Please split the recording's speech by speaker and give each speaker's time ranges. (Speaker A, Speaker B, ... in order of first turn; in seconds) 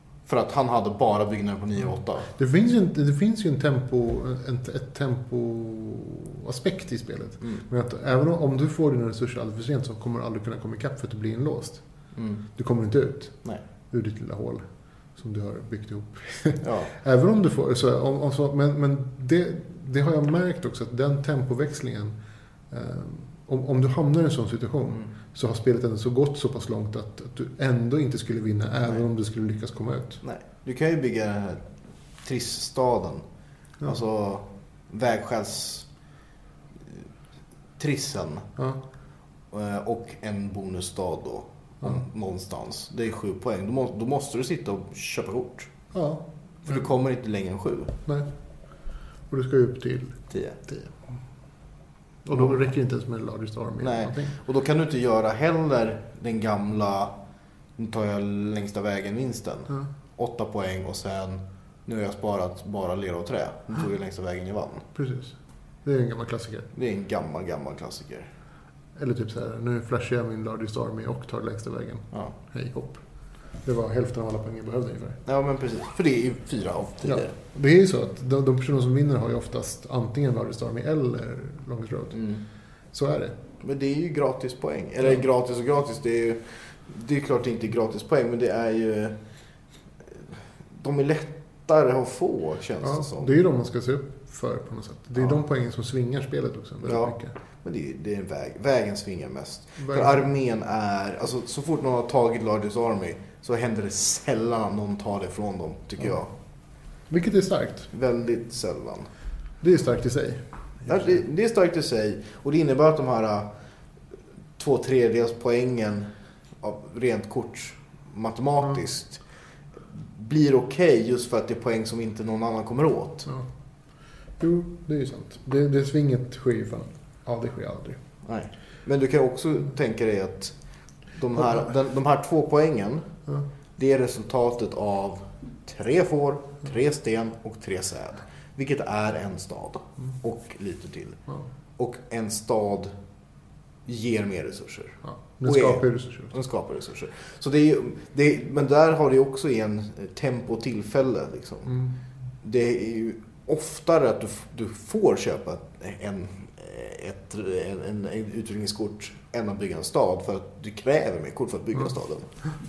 Speaker A: 0.3-2.3, 12.2-12.4, 16.6-16.9, 30.2-31.6, 32.2-33.2, 33.8-35.9, 37.8-38.5, 39.5-45.7, 46.7-48.0, 50.3-50.6, 52.3-52.6, 53.8-57.1, 57.8-64.9, 66.7-68.3, 75.3-77.3, 82.1-82.4, 83.6-89.2, 90.8-93.3, 96.8-106.3, 107.9-109.1, 110.9-113.5, 114.6-116.1, 116.6-119.2, 119.9-123.3, 128.2-130.6, 131.1-133.1, 133.8-141.2, 141.8-142.9, 143.9-151.8, 152.4-162.3
Speaker B: 2.3-11.8, 12.6-13.4, 13.9-14.6, 15.2-22.1, 22.7-30.2, 45.9-46.9, 49.3-51.0, 52.2-54.4, 65.0-66.7, 69.0-73.0, 73.6-75.2, 77.0-82.3, 82.9-83.4, 92.8-97.3, 99.8-100.2, 107.1-107.9, 109.6-111.2, 124.4-128.0, 145.0-146.4, 151.7-151.9